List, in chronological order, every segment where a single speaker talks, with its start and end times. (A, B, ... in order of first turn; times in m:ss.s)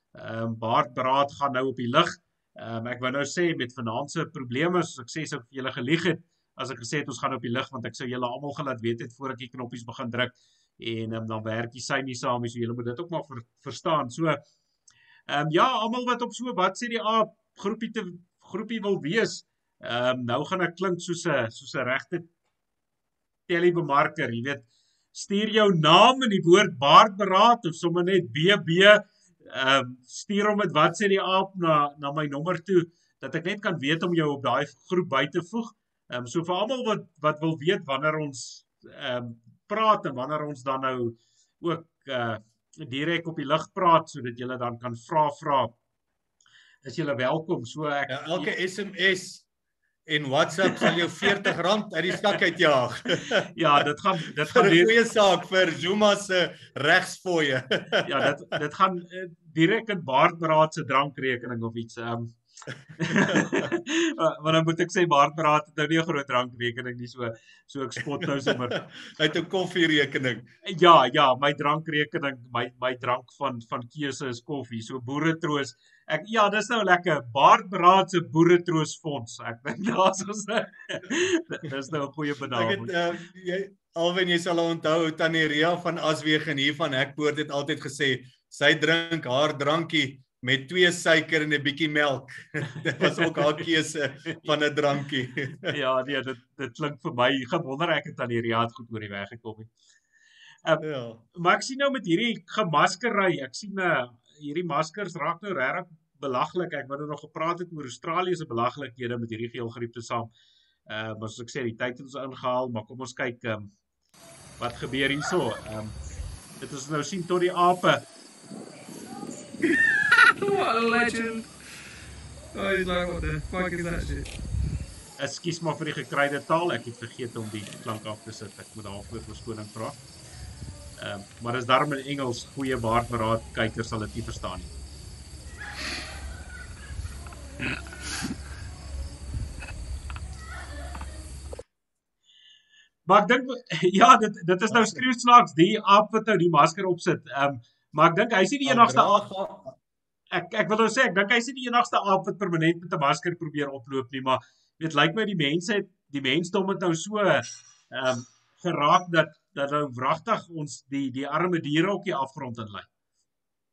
0:00.1-0:14.4 A
0:15.3-0:22.3 A
0:23.5-0:45.7 A
0:46.8-0:48.5 A
0:48.1-0:49.4 B
0:50.1-0:53.5 B
0:53.5-0:55.0 A
0:54.5-0:58.2 B
0:58.0-1:02.4 A
1:03.0-1:08.8 A
1:03.3-1:03.7 B
1:08.5-1:10.5 B
1:10.6-1:22.9 A
1:22.5-1:35.7 B
1:33.0-1:33.6 A
1:35.7-1:39.7 A
1:40.6-1:50.3 A
1:40.8-1:41.2 B
1:50.9-1:53.7 A
1:54.6-1:56.0 A
1:56.6-1:58.0 A
2:00.4-2:01.5 C
2:02.5-2:04.3 C
2:05.2-2:10.0 A
2:11.0-2:14.8 A
2:23.0-2:29.2 A
2:24.7-2:25.0 B
2:28.6-2:29.7 B
2:30.3-2:42.9 A